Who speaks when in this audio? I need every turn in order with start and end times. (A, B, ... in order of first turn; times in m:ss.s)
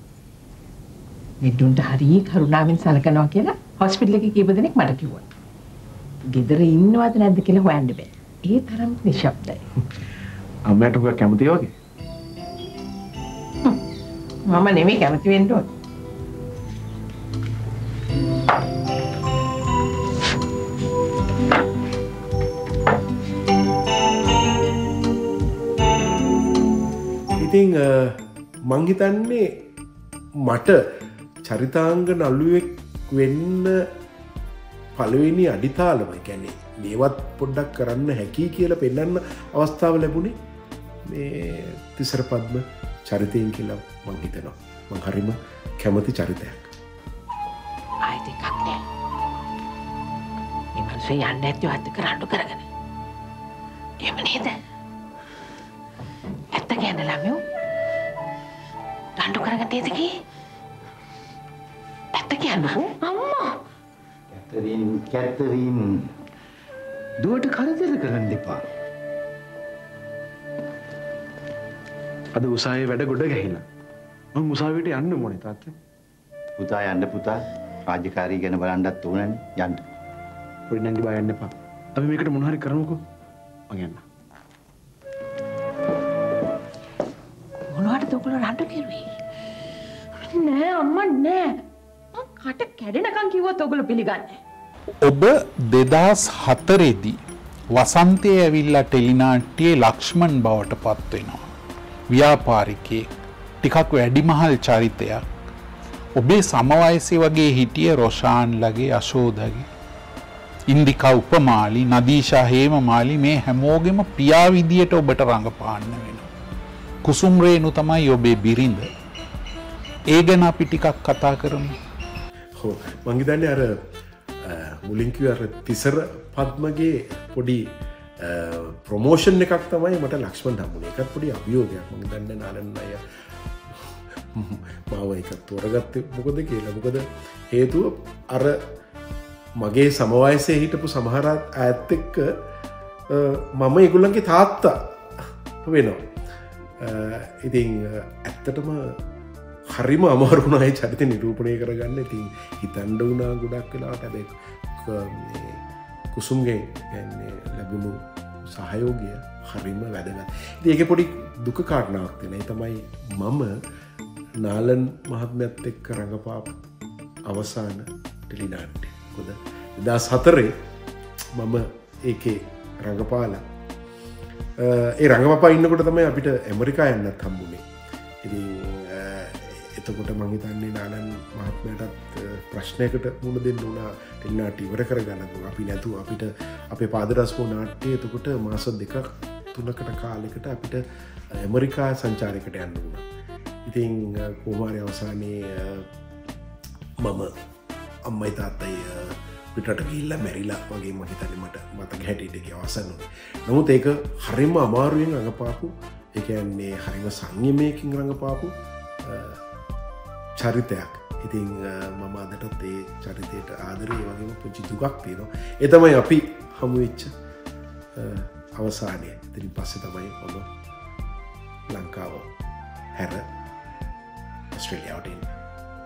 0:01.4-0:05.2 A
0:06.3-0:09.6 A
0:10.7-0:11.7 B
0:14.5-0:15.7 A
0:27.4-0:29.6 C
0:30.4-0:30.8 C
0:31.4-0:33.8 C
0:35.0-0:40.3 C
0:41.0-0:46.7 C
0:48.0-0:48.8 A
0:50.8-0:52.6 A
0:54.0-0:54.5 A
0:56.5-0:57.4 A
0:59.2-1:00.2 A
1:02.1-1:03.5 A
1:04.3-1:06.1 D
1:07.2-1:08.6 D
1:12.3-1:13.6 B
1:14.3-1:15.7 B
1:16.6-1:19.8 D
1:20.7-1:23.0 B
1:23.7-1:24.0 B
1:27.7-1:29.1 A
1:30.3-1:31.6 A
1:32.1-1:34.4 A
1:35.0-1:37.2 E
1:37.7-1:41.4 E
1:42.1-1:43.1 E
1:43.6-1:45.2 E
1:46.2-1:49.7 E
1:50.7-1:56.3 E
1:57.0-1:58.9 E
2:00.1-2:01.7 E
2:02.6-2:03.8 C
2:04.4-2:07.7 C
2:08.2-2:13.0 C
2:13.7-2:18.6 C
2:19.6-2:22.3 C
2:23.1-2:26.0 C
2:26.8-2:29.0 C
2:29.7-2:35.6 C
2:36.1-2:43.5 C
2:44.4-2:46.6 C
2:47.3-2:50.5 C
2:51.3-2:53.4 C
2:54.6-2:57.6 C
2:58.2-3:10.8 C
3:11.4-3:13.0 C
3:13.7-3:15.9 C
3:17.0-3:17.3 C
3:18.0-3:29.4 C
3:30.4-3:37.1 C
3:37.9-3:40.5 C
3:41.7-3:42.3 C
3:43.0-3:43.2 C
3:44.5-3:45.3 C